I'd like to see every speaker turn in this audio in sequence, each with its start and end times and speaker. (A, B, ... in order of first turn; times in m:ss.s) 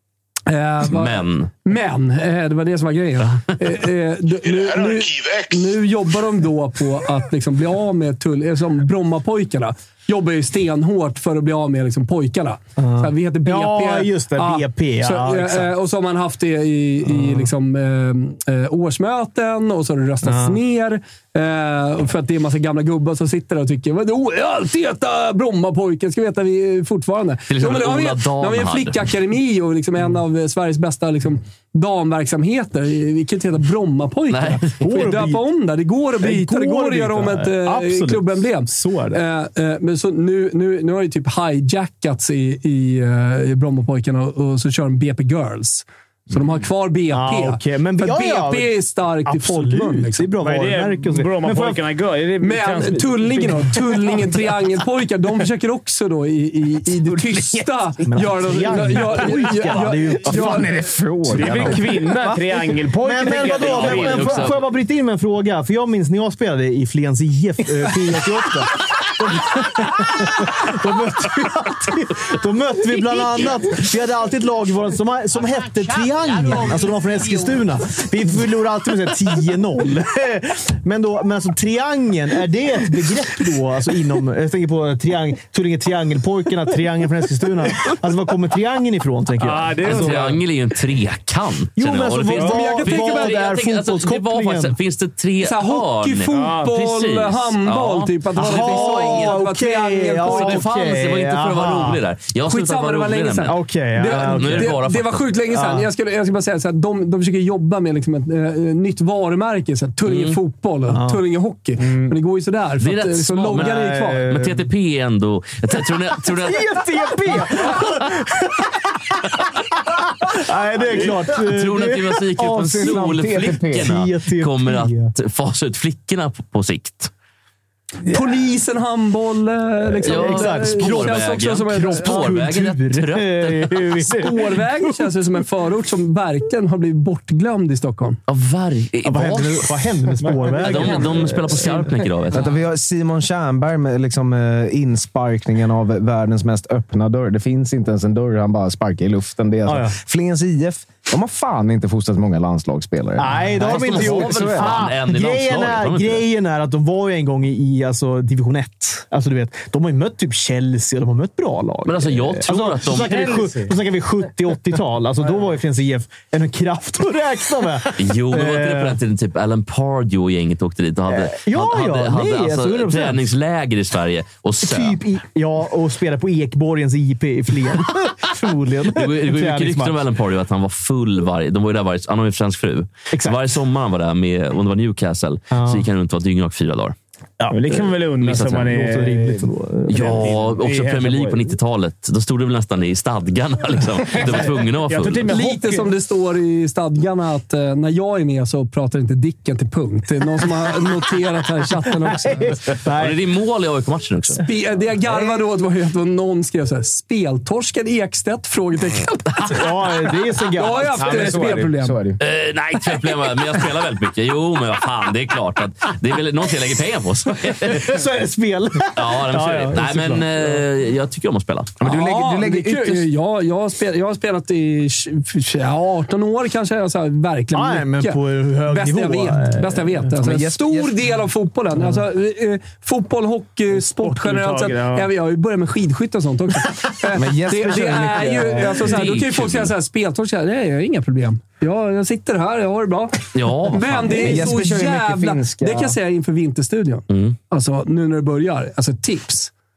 0:00.5-0:50.3 A
0:00.9-0:01.5 B
0:12.8-0:15.7 C
0:17.0-0:17.5 C
0:20.2-0:20.6 C
0:27.5-0:29.1 B
0:34.3-0:34.7 B
0:34.8-0:35.4 C
0:36.2-0:39.2 C
0:47.1-0:51.8 C
0:50.4-0:53.5 D
0:52.4-1:00.7 A
0:58.0-1:00.7 C
1:00.2-1:02.5 E
1:01.3-1:04.5 D
1:03.0-1:30.4 C
1:03.5-1:04.6 B
1:29.4-1:30.3 D
1:29.8-1:39.4 B
1:31.8-1:34.8 C
1:32.3-1:32.5 D
1:32.4-1:33.4 A
1:35.4-1:40.7 A
1:36.3-1:36.7 D
1:38.4-1:42.0 C
1:40.2-1:43.6 B
1:42.4-1:54.2 A
1:43.5-1:44.8 C
1:44.1-1:45.3 B
1:45.5-1:45.9 C
1:50.1-1:50.4 B
1:50.9-1:51.2 C
1:51.8-1:52.1 D
1:52.8-1:56.7 B
1:53.5-1:54.6 C
1:56.3-2:05.1 C
2:01.3-2:07.1 B
2:02.4-2:03.9 E
2:08.1-2:12.3 A
2:08.1-2:08.4 C
2:09.9-2:15.0 C
2:10.0-2:14.0 B
2:14.1-2:18.2 A
2:18.3-2:19.8 B
2:19.0-2:21.9 C
2:20.2-2:21.4 D
2:20.5-2:22.4 B
2:22.3-2:34.9 E
2:29.7-2:30.0 C
2:33.2-2:49.0 C
2:33.6-2:36.3 B
2:41.8-2:43.3 B
2:42.9-2:43.8 D
2:48.0-2:55.0 B
2:51.1-2:53.3 C
2:54.6-3:00.0 C
2:58.9-3:07.0 B
3:03.1-3:03.4 C
3:05.5-3:05.8 C
3:07.4-3:08.0 C
3:07.5-3:11.4 D
3:08.2-3:08.7 B
3:08.5-3:10.5 C
3:09.9-3:15.4 B
3:14.1-3:15.9 D
3:15.3-3:22.6 A
3:22.3-3:23.2 C
3:22.9-3:24.4 B
3:24.4-3:29.9 A
3:25.1-3:25.4 E
3:29.5-3:31.4 C
3:30.5-3:32.0 A
3:31.0-3:31.7 D
3:31.2-3:32.2 E
3:32.2-3:38.0 B
3:37.6-3:40.6 C
3:38.9-3:41.8 B
3:41.8-3:43.1 E
3:41.8-4:09.5 A
3:47.5-3:50.0 C
3:50.2-3:51.1 E
3:53.8-3:55.1 D
3:57.1-3:58.8 E
3:58.8-3:59.7 B
4:03.3-4:04.5 B
4:04.1-4:06.0 E
4:07.1-4:07.4 B